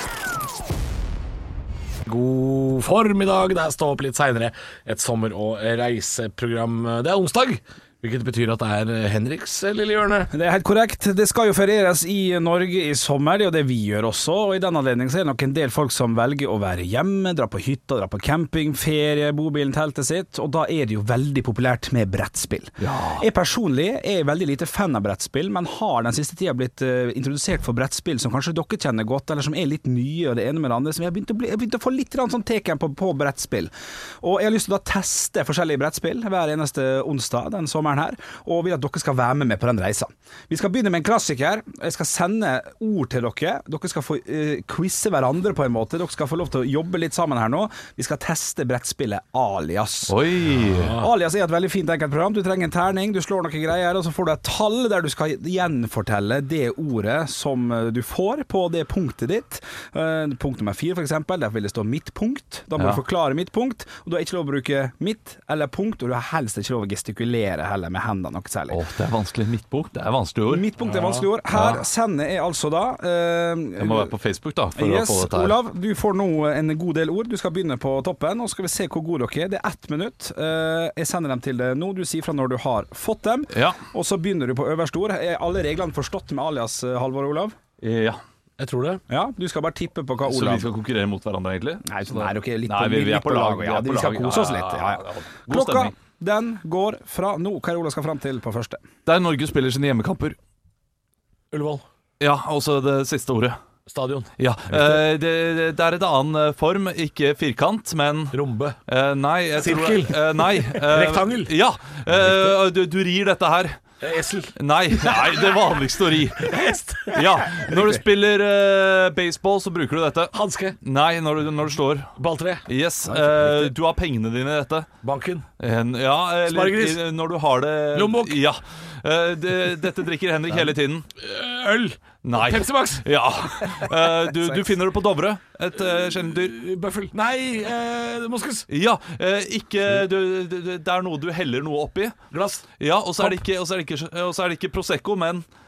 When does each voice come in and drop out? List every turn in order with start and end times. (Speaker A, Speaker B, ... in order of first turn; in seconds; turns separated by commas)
Speaker A: 2.1-10.3, Speaker B: 10.3-50.2, Speaker C: 22.8-23.2, Speaker C: 50.1-51.0, Speaker A: 50.5-51.1, Speaker B: 51.0-68.8, Speaker C: 68.7-70.7, Speaker B: 70.5-74.1, Speaker A: 70.8-71.3, Speaker C: 71.5-71.8, Speaker C: 73.8-75.6, Speaker B: 74.8-87.6, Speaker C: 83.5-83.8, Speaker C: 87.8-88.2, Speaker A: 88.6-89.0, Speaker B: 89.1-90.7, Speaker C: 90.3-95.9, Speaker B: 91.8-98.9, Speaker C: 99.1-100.4, Speaker A: 101.5-101.9, Speaker C: 102.2-103.6, Speaker A: 103.9-104.3, Speaker C: 104.4-113.8, Speaker A: 108.3-108.8, Speaker A: 109.6-111.5, Speaker A: 114.0-117.8, Speaker C: 114.6-122.1, Speaker A: 120.3-120.8, Speaker A: 122.2-122.7, Speaker C: 122.7-124.9, Speaker B: 123.1-123.7, Speaker A: 125.0-125.5, Speaker C: 125.6-131.1, Speaker A: 126.5-127.0, Speaker A: 127.9-128.4, Speaker A: 130.5-133.1, Speaker C: 132.2-136.6, Speaker A: 136.2-138.7, Speaker C: 138.7-142.2, Speaker A: 142.3-142.7, Speaker C: 142.8-145.4